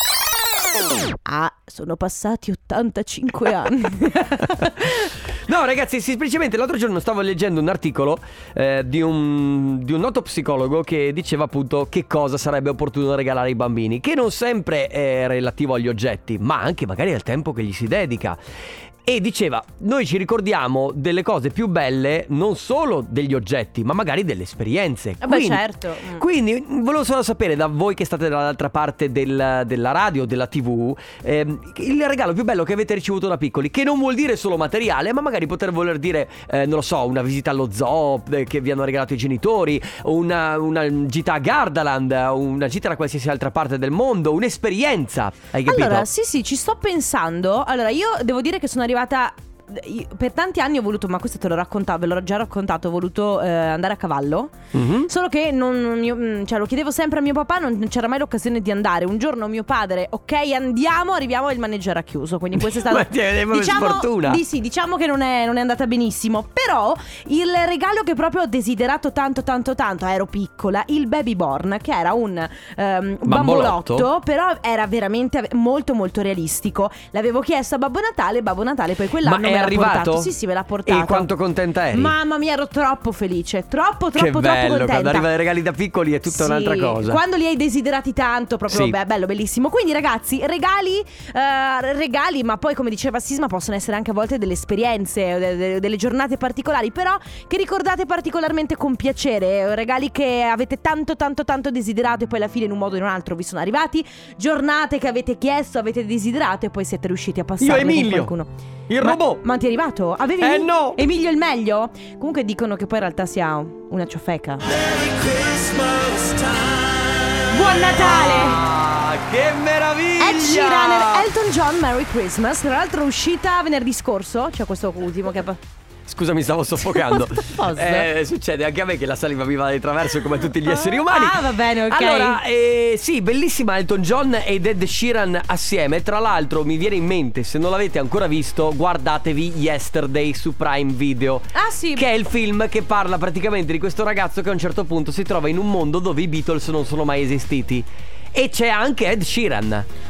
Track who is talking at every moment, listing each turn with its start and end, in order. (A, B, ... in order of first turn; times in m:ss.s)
0:01.2-0:05.1 A
0:05.5-0:18.4 B
0:19.0-0:46.1 B
0:25.2-0:26.2 A
0:45.7-0:54.6 A
0:54.7-0:55.1 B
0:55.1-1:21.3 A
1:02.6-1:04.4 B
1:13.2-1:14.1 B
1:19.2-1:20.3 B
1:20.9-1:22.2 B
1:21.9-1:25.3 A
1:24.2-1:27.2 B
1:26.3-1:54.7 A
1:28.7-1:29.0 B
1:47.6-1:48.3 B
1:48.9-1:49.4 B
1:50.4-1:51.0 B
1:54.7-2:01.3 B
1:57.5-1:58.6 A
2:00.2-2:05.6 A
2:06.1-2:29.9 B
2:06.8-2:08.1 A
2:10.7-2:12.4 A
2:21.5-2:22.1 A